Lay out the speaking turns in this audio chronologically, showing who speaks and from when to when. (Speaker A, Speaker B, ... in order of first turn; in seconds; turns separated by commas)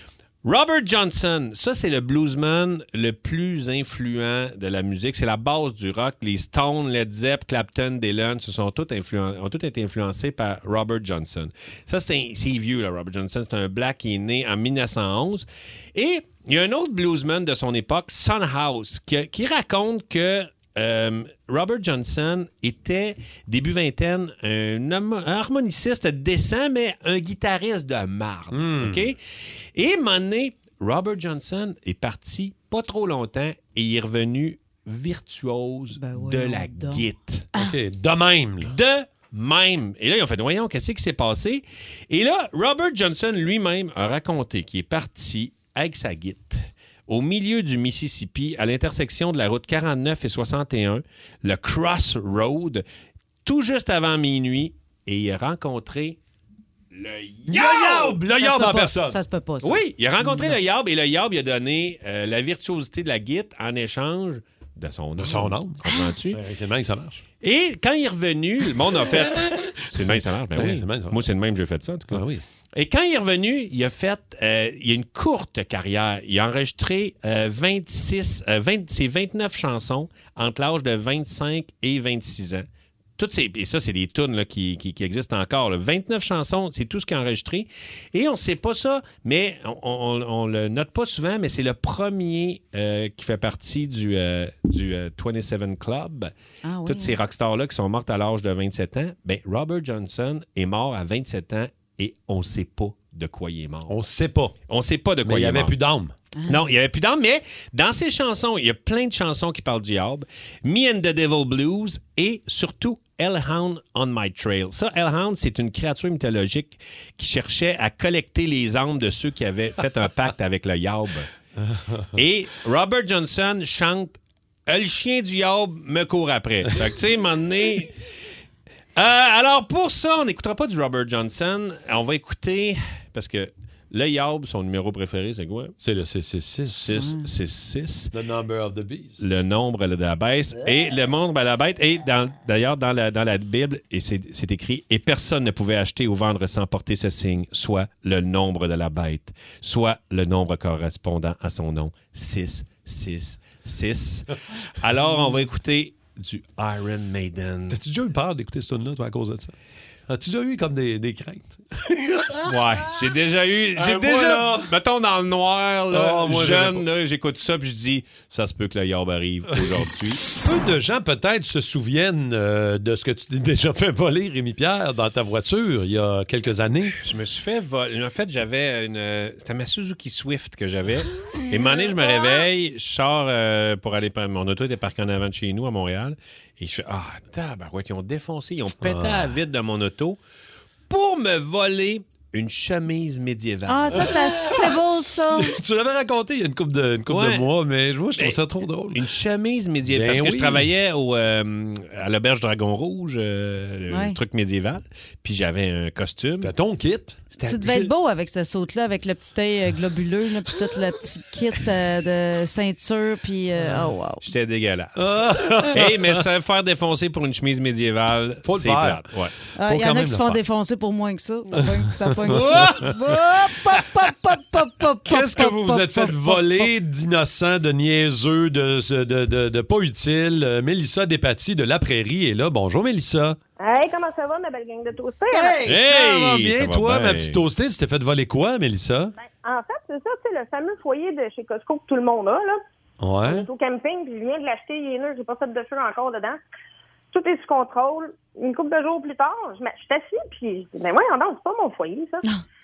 Speaker A: 0.4-29.2, Speaker B: 28.5-29.1, Speaker A: 29.8-37.5, Speaker C: 36.0-37.0, Speaker B: 37.6-38.7, Speaker A: 38.6-52.8, Speaker A: 53.4-56.2, Speaker A: 56.9-58.2, Speaker B: 57.5-59.2, Speaker C: 58.4-60.5, Speaker A: 59.6-66.4, Speaker B: 65.2-67.2, Speaker A: 67.4-72.2, Speaker B: 70.0-71.2, Speaker B: 72.1-72.4, Speaker A: 72.8-82.7, Speaker A: 83.2-96.3, Speaker C: 96.6-97.2, Speaker A: 96.8-103.9, Speaker B: 103.9-104.5, Speaker A: 104.7-105.7, Speaker B: 105.2-106.1, Speaker C: 106.4-106.6, Speaker A: 106.5-121.3, Speaker B: 121.6-122.1, Speaker A: 122.1-127.9, Speaker A: 128.9-135.7, Speaker B: 135.8-137.0, Speaker A: 136.8-138.1, Speaker C: 136.9-137.2, Speaker B: 138.1-139.2, Speaker A: 139.2-157.8, Speaker B: 157.7-159.5, Speaker B: 160.1-162.5, Speaker A: 162.4-170.3, Speaker B: 163.8-164.7, Speaker B: 165.9-166.8, Speaker B: 170.3-176.9, Speaker A: 177.0-190.2, Speaker B: 188.8-189.3, Speaker A: 190.9-194.1, Speaker C: 193.7-195.6, Speaker B: 193.9-194.8, Speaker B: 195.3-199.0, Speaker A: 197.1-197.5, Speaker A: 198.9-206.5, Speaker B: 199.9-200.7, Speaker C: 203.9-204.2, Speaker B: 206.4-207.2, Speaker A: 207.3-207.9, Speaker C: 207.4-214.2, Speaker A: 214.2-219.3, Speaker B: 215.0-216.2, Speaker B: 218.4-220.4, Speaker C: 219.6-226.6, Speaker B: 221.6-222.8, Speaker A: 222.3-222.8, Speaker B: 225.0-233.4, Speaker D: 233.6-235.6, Speaker B: 235.3-239.1, Speaker A: 235.6-237.4, Speaker D: 239.2-242.6, Speaker B: 243.0-243.5, Speaker D: 243.2-246.4, Speaker D: 247.1-252.2